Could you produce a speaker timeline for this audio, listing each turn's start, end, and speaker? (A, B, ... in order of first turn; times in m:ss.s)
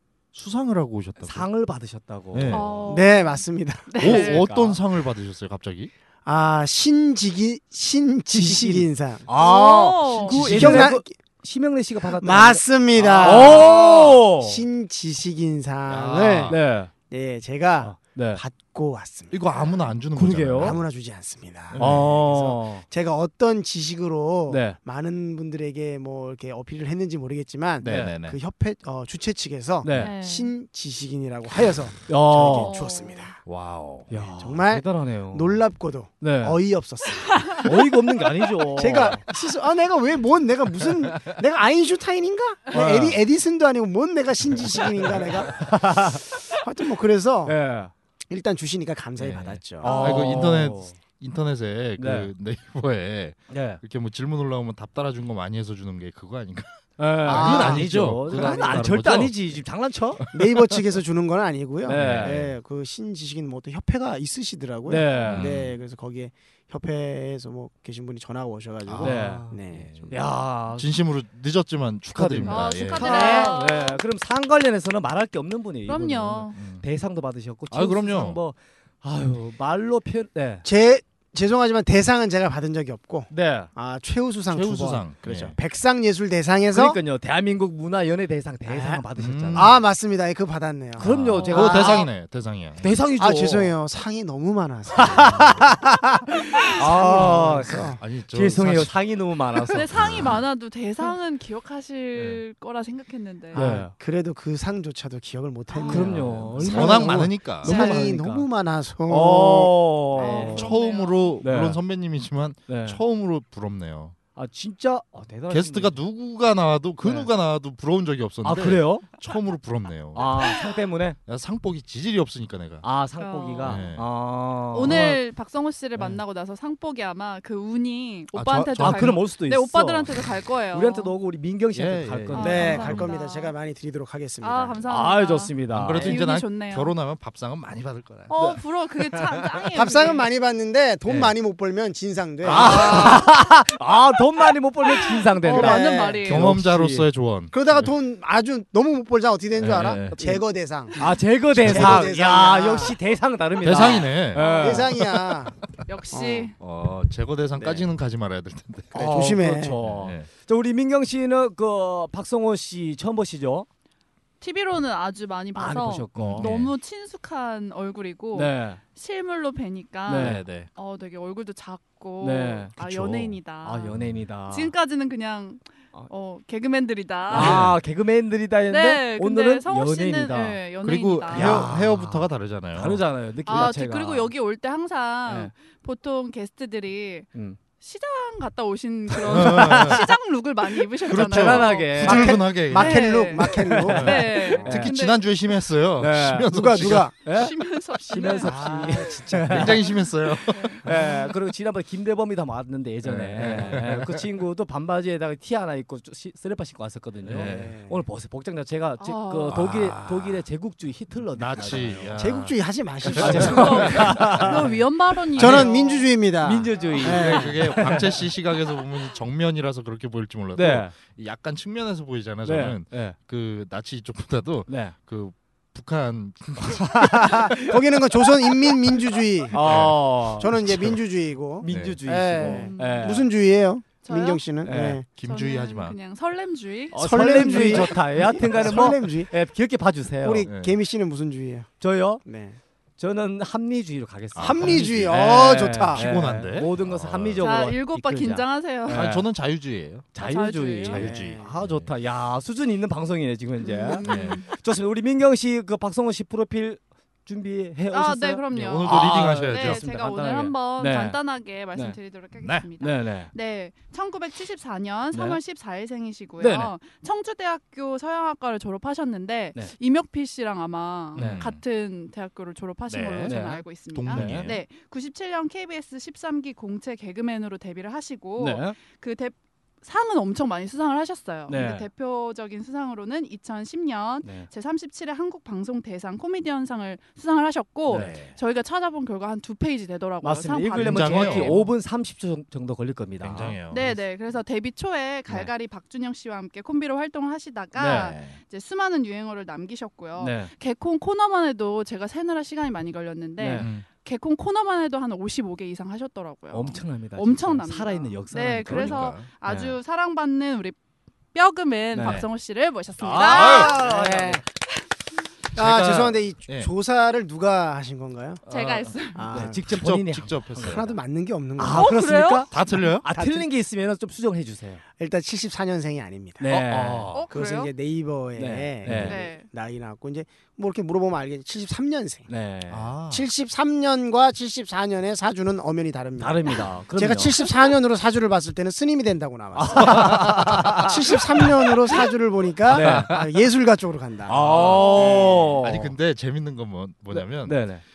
0:00.3-0:01.5 A
0:01.2-0:02.8 B
0:02.3-0:02.9 A
0:02.5-0:04.5 C
0:02.9-0:03.9 D
0:04.0-0:05.9 A
0:04.0-0:04.8 B
0:06.2-0:11.1 D
0:08.3-0:12.6 B
0:09.3-0:10.4 C
0:10.3-0:10.9 A
0:12.1-0:16.6 D
0:13.0-0:13.9 A
0:13.2-0:14.6 B
0:15.9-0:16.6 A
0:16.5-0:16.9 B
0:17.1-0:19.7 D
0:17.8-0:18.4 B
0:19.3-0:20.8 A
0:19.5-0:19.9 C
0:20.1-0:20.8 B
0:20.6-0:33.4 D
0:21.7-0:22.1 A
0:21.8-0:22.8 B
0:24.5-0:24.8 B
0:27.8-0:28.2 B
0:27.8-0:28.4 A
0:29.8-0:30.2 B
0:29.9-0:30.5 C
0:32.1-0:32.8 B
0:32.5-0:33.3 C
0:33.5-0:34.1 A
0:34.1-0:35.6 B
0:34.1-0:47.6 D
0:36.2-0:36.6 B
0:37.3-0:37.6 C
0:37.6-0:39.2 B
0:42.7-0:43.2 B
0:45.5-0:46.2 B
0:47.5-0:47.9 B
0:48.3-0:50.0 D
0:49.2-0:59.4 A
0:49.8-0:50.6 C
0:49.8-0:51.0 B
0:52.0-0:52.3 B
0:53.5-0:53.8 B
0:57.0-1:00.3 B
0:57.3-0:59.0 D
1:00.3-1:10.1 D
1:01.8-1:02.4 B
1:01.9-1:02.5 A
1:04.9-1:05.5 B
1:05.2-1:05.8 A
1:08.8-1:13.4 A
1:09.0-1:09.5 B
1:10.1-1:10.9 B
1:12.1-1:20.7 B
1:12.4-1:14.0 C
1:13.0-1:13.6 D
1:15.9-1:16.6 C
1:16.5-1:16.8 A
1:17.7-1:18.4 A
1:20.6-1:27.0 D
1:23.3-1:23.7 B
1:24.5-1:25.6 A
1:26.7-1:29.8 B
1:28.7-1:29.0 D
1:29.2-1:29.8 A
1:29.6-1:32.1 D
1:31.0-1:32.1 B
1:31.0-1:32.9 A
1:31.4-1:31.9 C
1:32.8-1:33.7 B
1:33.2-1:36.0 D
1:35.0-1:39.9 B
1:36.6-1:38.0 D
1:38.0-1:39.0 A
1:39.6-1:40.4 A
1:39.7-1:43.6 C
1:42.2-1:42.4 B
1:43.5-1:43.9 B
1:43.5-1:50.7 D
1:45.7-1:46.2 C
1:45.9-1:48.5 B
1:46.1-1:47.8 A
1:49.1-1:50.7 B
1:50.1-1:51.4 C
1:50.2-1:54.2 A
1:51.4-1:51.8 B
1:52.7-1:53.0 B
1:54.4-1:56.0 B
1:55.5-2:00.3 A
1:57.0-1:57.3 B
1:58.4-1:59.1 B
2:00.2-2:01.2 B
2:00.2-2:00.8 C
2:01.3-2:02.9 A
2:02.8-2:05.2 B
2:03.2-2:03.9 C
2:03.6-2:04.1 A
2:04.7-2:11.1 C
2:04.8-2:05.2 A
2:06.0-2:06.2 A
2:08.3-2:09.2 A
2:08.8-2:10.1 B
2:10.7-2:12.8 B
2:11.7-2:13.1 A
2:12.3-2:13.5 C
2:12.4-2:14.9 D
2:14.4-2:16.9 C
2:14.9-2:16.1 B
2:15.7-2:18.4 A
2:18.3-2:20.3 C
2:18.3-2:19.5 B
2:19.7-2:23.3 D
2:21.1-2:21.3 A
2:22.4-2:23.3 A
2:22.4-2:27.1 B
2:25.3-2:26.5 C
2:25.5-2:26.3 D
2:26.2-2:27.9 A
2:27.5-2:33.0 D
2:29.6-2:30.3 A
2:30.2-2:30.4 B
2:31.0-2:35.1 B
2:31.5-2:32.1 A
2:33.6-2:35.0 A
2:33.7-2:35.1 C
2:34.4-2:35.6 D
2:35.9-2:36.6 C
2:36.1-2:36.5 D
2:36.6-2:40.3 A
2:37.6-2:37.9 D
2:38.9-2:39.8 D
2:38.9-2:43.7 B
2:44.4-2:53.9 C
2:45.6-2:46.5 B
2:46.2-2:46.7 A
2:48.3-2:48.8 B
2:50.1-2:50.5 B
2:50.2-2:50.7 A
2:52.2-2:54.7 B
2:53.9-2:54.2 A
2:54.5-2:57.7 C
2:57.3-3:00.6 B
2:57.3-2:57.8 A
2:58.7-3:01.7 C
3:00.8-3:03.0 A
3:01.3-3:04.3 B
3:03.5-3:07.3 C
3:05.3-3:05.5 B
3:07.3-3:07.6 B
3:07.8-3:15.3 C
3:09.2-3:10.1 B
3:09.2-3:10.1 A
3:11.0-3:13.2 A
3:11.1-3:12.4 B
3:12.1-3:14.7 D
3:13.4-3:14.9 B
3:14.0-3:17.1 A
3:16.0-3:19.8 B
3:16.5-3:17.2 D
3:17.2-3:20.8 C
3:18.4-3:19.8 D
3:19.4-3:20.8 A
3:20.8-3:32.2 B
3:23.0-3:24.3 A
3:27.3-3:27.8 A
3:27.4-3:28.0 D
3:29.0-3:29.7 C
3:29.5-3:30.4 A
3:31.3-3:34.3 A
3:32.2-3:34.8 D
3:33.1-3:34.8 B
3:33.2-3:36.1 C
3:35.4-3:37.9 D
3:35.4-3:35.8 A
3:36.4-3:38.2 B
3:36.7-3:37.2 C
3:37.0-3:47.8 A
3:40.6-3:41.0 B
3:42.4-3:43.2 B
3:44.7-3:45.0 B
3:47.0-3:47.5 B
3:47.1-3:55.1 D
3:49.5-3:50.5 B
3:49.5-3:50.0 A
3:50.6-3:51.0 A
3:51.6-3:53.2 B
3:51.7-3:52.0 A
3:52.4-3:53.2 C
3:54.0-3:54.5 C
3:54.6-3:55.0 B
3:55.2-3:56.0 A
3:55.2-3:57.0 C
3:56.9-4:00.5 B
3:56.9-3:59.3 D
4:00.2-4:01.7 D
4:00.4-4:00.8 A
4:01.8-4:02.2 B
4:02.2-4:02.6 D
4:03.0-4:09.3 B
4:04.4-4:05.3 A
4:04.4-4:06.1 D
4:05.9-4:07.5 A
4:07.4-4:09.1 C
4:08.9-4:10.1 A
4:10.1-4:21.2 B
4:10.2-4:11.1 C
4:10.9-4:11.9 A
4:10.9-4:11.5 D
4:13.6-4:14.5 C
4:13.9-4:14.5 A
4:17.9-4:51.6 C
4:18.5-4:19.8 A
4:22.4-4:22.7 A
4:22.8-4:23.3 B
4:25.1-4:25.4 B
4:26.4-4:26.7 B
4:31.2-4:31.4 B
4:31.2-4:31.6 A
4:32.9-4:33.4 A
4:33.3-4:34.5 B
4:33.9-4:34.6 A
4:38.4-4:38.8 B
4:41.5-4:41.9 B
4:44.2-4:44.5 B
4:47.9-4:48.2 B
4:47.9-4:48.4 A
4:50.2-4:54.0 B
4:50.7-4:51.7 A
4:53.2-4:53.8 A
4:53.7-5:10.8 C
4:57.8-4:58.2 B
4:58.0-4:58.4 A
5:00.2-5:00.5 B
5:03.4-5:03.7 B
5:03.6-5:03.9 A
5:06.5-5:09.7 B
5:08.6-5:09.3 A
5:11.3-5:13.9 C
5:11.9-5:12.3 B
5:13.0-5:14.4 B
5:13.3-5:13.9 A
5:13.3-5:14.4 D
5:15.6-5:16.7 A
5:15.6-5:18.4 D
5:18.5-5:19.3 C
5:18.5-5:20.9 A
5:19.1-5:19.6 D
5:19.3-5:21.0 B
5:20.6-5:22.5 D
5:21.6-5:24.8 B
5:21.7-5:22.5 C
5:22.5-5:23.1 A
5:23.1-5:23.5 D
5:25.0-5:26.4 D
5:26.4-5:27.1 B
5:26.5-5:27.3 A
5:27.1-5:27.7 C
5:27.3-5:32.3 D
5:28.4-5:29.2 B
5:29.0-5:29.5 C
5:32.3-5:32.9 B
5:32.7-5:33.2 A
5:33.1-5:45.6 D
5:36.2-5:37.4 B
5:39.6-5:41.6 B
5:39.9-5:40.9 A
5:42.7-5:43.2 B
5:42.7-5:43.1 A
5:44.3-5:45.9 B
5:44.4-5:47.6 A
5:44.5-5:45.4 C
5:47.1-5:47.8 B